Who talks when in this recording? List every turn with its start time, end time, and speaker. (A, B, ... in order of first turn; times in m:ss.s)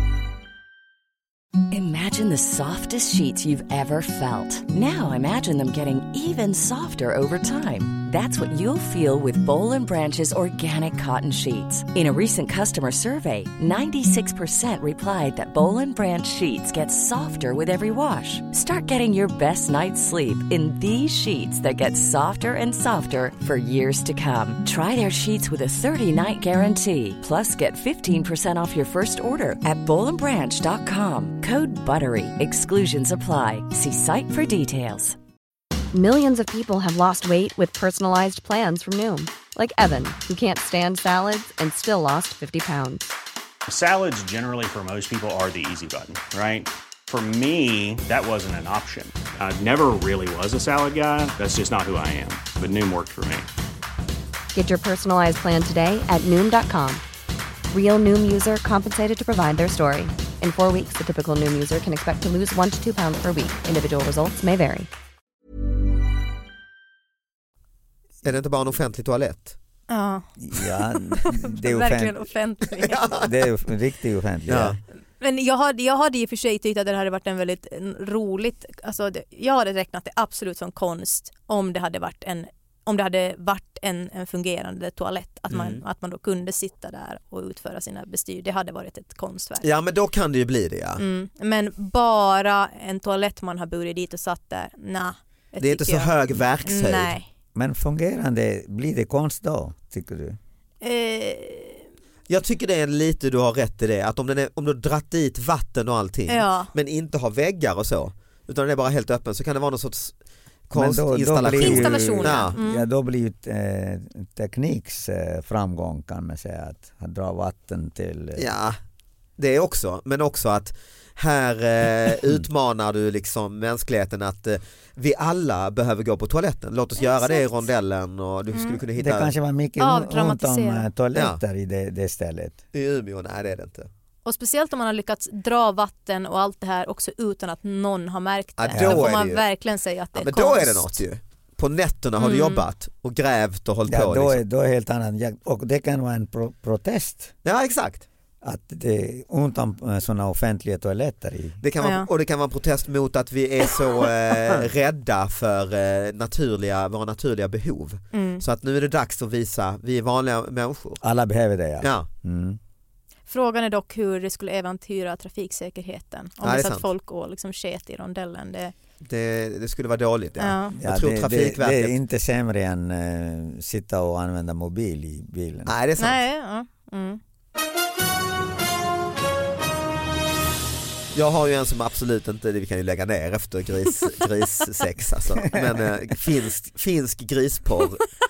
0:01.7-0:35.2 A
0:35.9-0:43.1 B
0:43.7-0:53.5 C
0:54.5-0:57.0 B
0:57.7-1:04.9 B
1:08.2-1:09.6 D
1:09.9-1:13.2 E
1:10.4-1:12.3 F
1:12.9-1:13.3 D
1:13.1-1:14.8 F
1:14.5-1:14.8 D
1:15.2-1:29.6 E
1:25.5-1:25.8 D
1:29.6-1:31.0 D
1:31.0-1:37.3 E
1:35.6-1:37.1 D
1:37.5-1:40.4 F
1:40.8-1:41.8 E
1:42.3-1:50.1 D
1:46.3-1:46.7 E
1:50.7-1:52.6 D
1:50.7-1:58.4 F
1:51.5-1:52.9 E
1:58.4-1:58.8 D
1:59.4-2:09.3 D
2:07.0-2:07.5 E
2:08.5-2:08.8 E
2:09.0-2:12.6 F
2:09.8-2:10.9 E
2:11.1-2:11.4 D
2:12.7-2:13.9 D
2:14.2-2:21.0 E
2:18.6-2:19.4 D
2:18.7-2:19.2 F
2:20.1-2:24.4 D
2:22.2-2:22.6 E
2:23.9-2:27.3 F
2:27.4-2:28.0 D
2:28.4-2:31.6 F
2:31.6-2:41.0 D
2:31.8-2:32.1 E
2:38.1-2:38.4 E
2:41.0-2:42.6 F
2:41.8-2:42.1 D
2:43.3-2:48.7 E
2:46.4-2:46.9 D
2:49.0-2:52.0 D
2:50.4-2:50.8 E
2:50.8-2:55.7 F
2:55.7-2:56.2 D
2:56.0-2:57.2 E
3:01.1-3:08.0 D
3:05.4-3:05.9 F